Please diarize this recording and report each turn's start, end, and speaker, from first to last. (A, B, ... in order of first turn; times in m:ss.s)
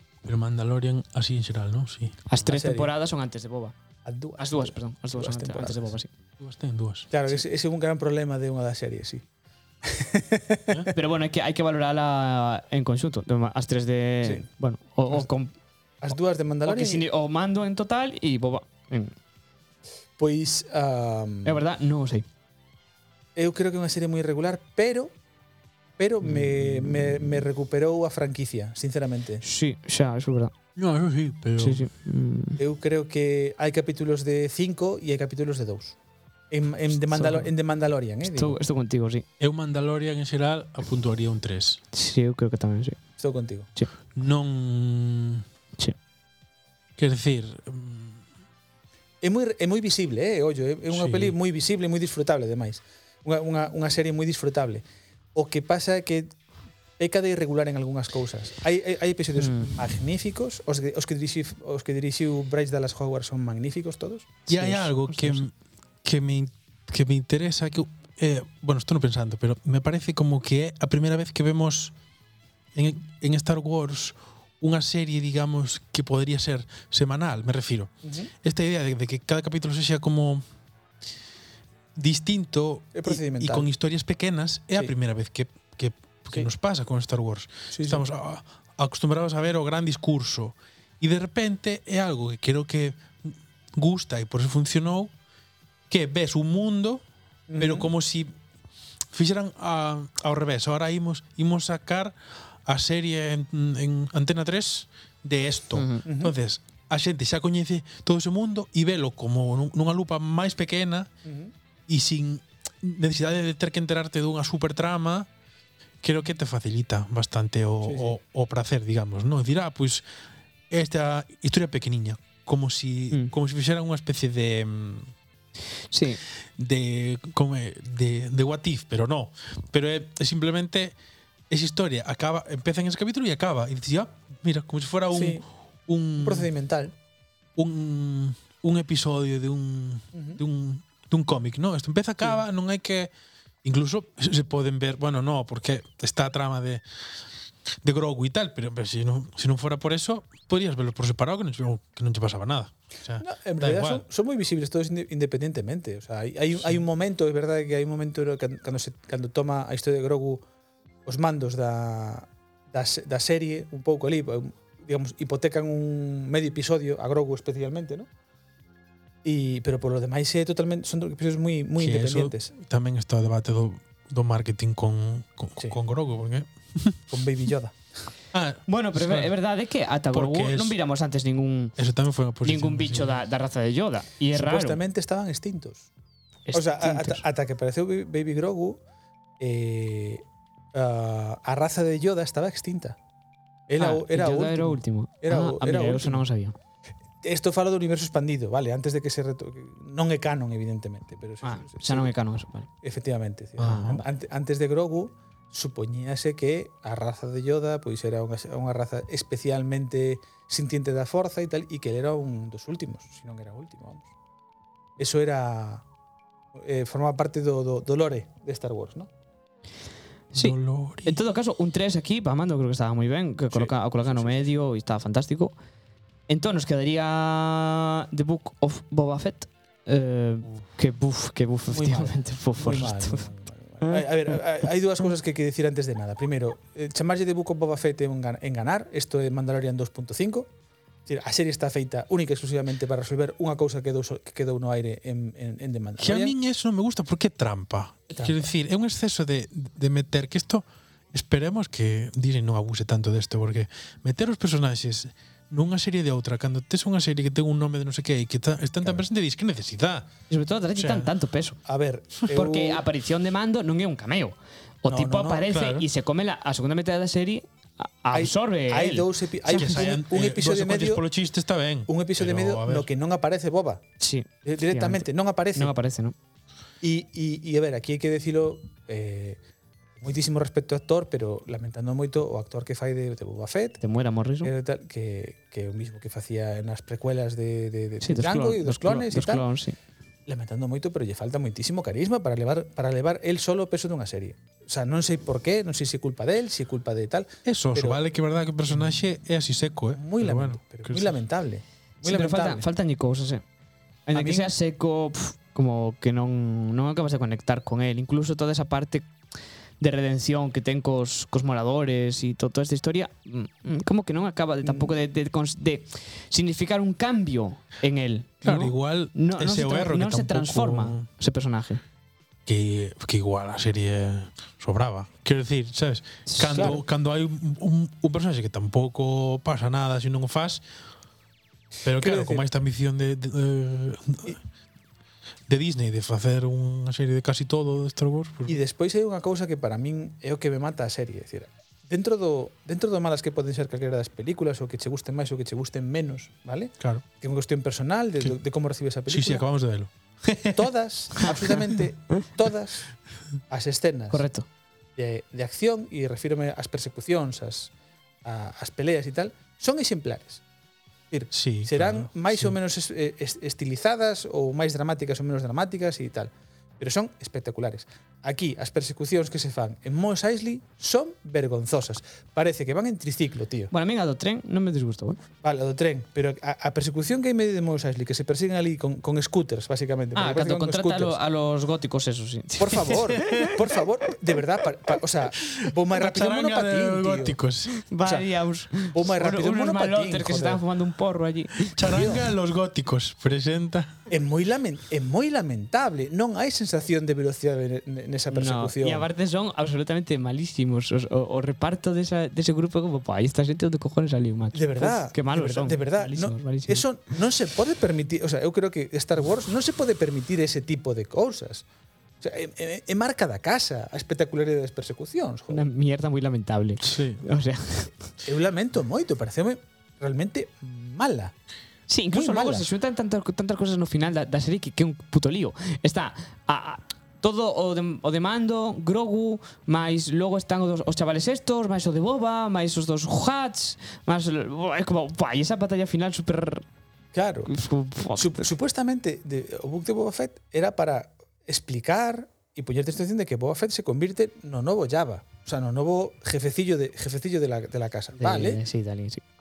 0:00.2-0:02.2 A
0:02.3-0:03.7 B
0:02.4-0:02.9 C
0:04.0-0:05.9 C
0:04.4-0:06.1 B
0:06.4-0:07.1 A
0:07.1-0:09.2 C
0:09.8-0:10.9 C
0:10.9-0:15.5 B
0:14.2-0:14.5 C
0:16.0-0:17.0 C
0:16.6-0:19.1 B
0:20.2-0:21.6 C
0:21.4-0:22.2 B
0:23.4-0:25.1 C
0:26.0-0:29.4 C
0:29.4-0:30.5 B
0:30.7-0:31.9 A
0:31.6-0:32.6 B
0:32.6-0:36.0 C
0:36.5-0:38.6 C
0:37.1-0:37.5 B
0:38.2-0:39.2 B
0:39.4-0:41.8 A
0:41.9-0:43.0 B
0:43.2-0:43.7 C
0:44.1-0:45.4 A
0:47.0-0:48.2 A
0:49.2-0:54.8 C
0:50.9-0:51.3 A
0:55.3-0:56.3 C
0:57.0-1:04.9 C
0:59.4-0:59.8 B
1:04.5-1:11.9 A
1:12.7-1:20.4 A
1:18.0-1:18.3 C
1:22.0-1:35.1 A
1:22.9-1:23.7 C
1:27.7-1:28.0 C
1:35.9-1:37.0 A
1:37.5-1:37.9 C
1:37.6-1:38.3 A
1:39.1-1:51.1 A
1:45.8-1:46.0 B
1:46.0-1:46.3 C
1:51.2-1:51.5 C
1:51.9-1:55.3 A
1:56.0-2:00.0 A
1:57.8-1:58.2 C
2:00.7-2:05.1 A
2:05.9-2:06.2 B
2:06.6-2:11.0 A
2:11.5-2:16.5 A
2:15.1-2:15.4 C
2:16.2-2:16.9 C
2:17.6-2:23.1 A
2:20.1-2:20.4 C
2:23.6-2:26.8 A
2:27.8-2:34.0 A
2:33.2-2:40.4 C
2:41.0-2:48.1 C
2:49.2-2:52.5 C
2:51.8-2:57.0 A
2:57.1-2:57.8 C
2:58.3-2:59.3 A
2:58.7-3:01.8 B
3:00.1-3:00.8 A
3:01.8-3:03.2 A
3:02.4-3:04.8 B
3:04.3-3:05.9 C
3:06.5-3:07.2 B
3:06.5-3:08.8 C
3:09.4-3:13.0 C
3:13.7-3:16.2 C
3:13.8-3:16.5 B
3:17.2-3:22.1 C
3:21.4-3:22.7 B
3:22.8-3:34.1 C
3:23.6-3:24.0 B
3:35.0-3:35.8 C
3:36.5-3:39.1 C
3:40.3-3:45.5 B
3:40.3-3:41.2 A
3:43.5-3:44.5 C
3:46.3-3:53.3 B
3:51.7-4:00.5 C
3:53.8-3:54.4 B
4:01.0-4:06.3 C
4:06.0-4:20.1 A
4:08.1-4:08.5 C
4:20.3-4:21.6 B
4:20.8-4:21.1 A
4:21.6-4:22.8 C
4:22.3-4:29.8 B
4:24.9-4:25.4 C
4:25.4-4:25.9 A
4:28.1-4:31.0 C
4:29.5-4:32.9 A
4:31.9-4:33.8 C
4:34.0-4:36.1 B
4:34.4-4:35.7 C
4:36.8-4:39.4 C
4:40.0-4:43.8 C
4:43.8-4:44.5 B
4:44.4-4:49.4 C
4:48.0-4:49.8 B
4:50.3-4:58.0 C
4:57.4-5:01.1 A
4:59.9-5:02.6 C
5:02.0-5:03.4 B
5:04.1-5:09.1 B
5:04.1-5:04.5 C
5:09.8-5:21.8 B
5:14.6-5:14.9 C
5:18.4-5:21.1 A
5:22.4-5:30.6 A
5:26.3-5:26.8 B
5:26.5-5:26.8 C
5:31.8-5:34.4 A
5:31.8-5:32.4 C
5:35.5-5:38.6 A
5:38.5-5:49.4 C
5:49.1-5:50.7 A
5:50.5-5:52.9 C
5:53.5-5:54.2 C
5:54.1-5:54.4 B
5:55.0-5:57.7 C
5:58.2-6:00.4 C
6:01.1-6:13.7 C
6:01.3-6:02.5 A
6:13.7-6:15.2 B
6:15.4-6:21.2 C
6:20.1-6:23.6 B
6:22.6-6:27.4 C
6:22.9-6:23.5 A
6:25.4-6:27.8 A
6:27.8-6:31.8 B
6:28.9-6:30.6 C
6:31.7-6:33.9 A
6:31.8-6:32.2 C
6:34.1-6:39.1 C
6:38.3-6:46.8 B
6:44.5-6:51.6 C
6:52.2-6:55.6 C
6:55.5-6:57.9 B
6:56.8-6:57.2 A
6:58.2-7:01.3 C
7:01.9-7:16.6 B
7:02.1-7:02.7 C
7:17.1-7:17.5 C
7:17.5-7:18.5 B
7:18.1-7:28.6 C
7:28.2-7:29.2 B